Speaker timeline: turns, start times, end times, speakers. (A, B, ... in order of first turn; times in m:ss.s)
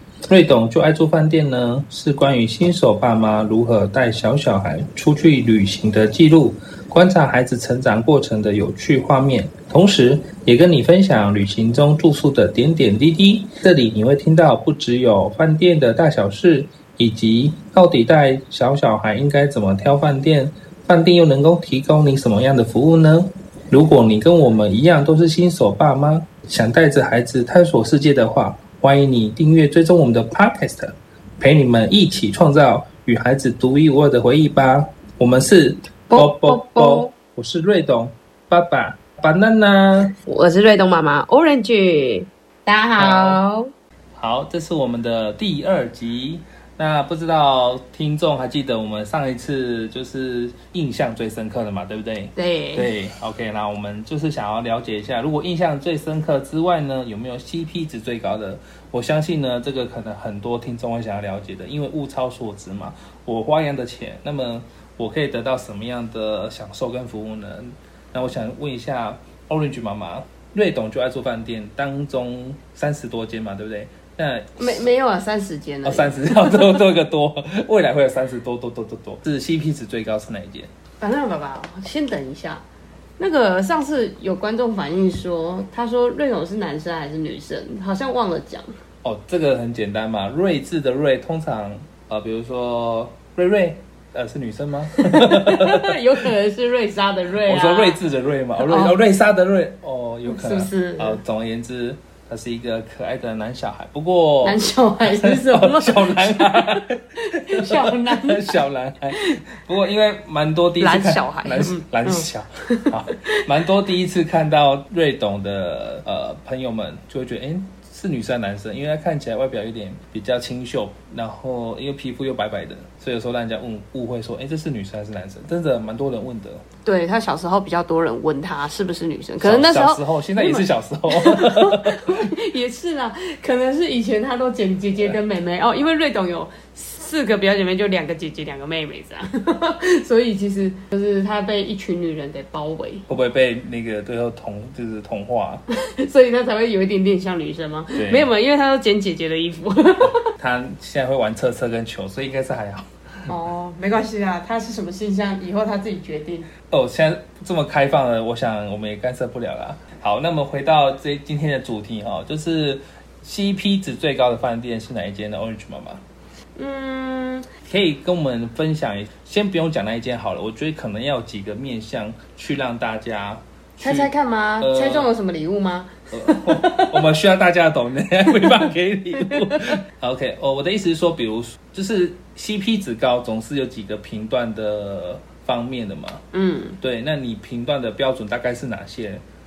0:00.3-0:40.1 A
0:36.1-0:37.1 B
0:40.2-0:43.7 B
0:43.0-0:43.4 A
0:44.1-1:14.8 A
0:52.4-0:52.9 B
1:14.6-1:16.8 B
1:15.8-1:20.7 A
1:21.0-1:22.6 B
1:23.2-1:28.7 B
1:29.0-1:36.0 A
1:34.9-1:38.0 B
1:37.4-2:06.6 A
1:38.6-1:39.0 B
1:40.3-1:41.2 B
1:44.4-1:48.6 B
1:49.1-1:49.4 B
1:50.8-1:53.4 B
2:06.8-2:23.1 B
2:09.4-2:12.3 A
2:23.1-2:25.6 A
2:25.7-2:30.3 B
2:27.9-2:28.3 A
2:30.0-2:33.3 A
2:33.3-2:36.5 B
2:36.7-2:46.0 A
2:46.6-2:47.5 B
2:47.6-2:55.1 A
2:53.8-2:57.0 B
2:56.1-3:06.2 A
2:58.3-2:59.8 B
3:06.3-3:06.8 B
3:06.8-3:09.2 A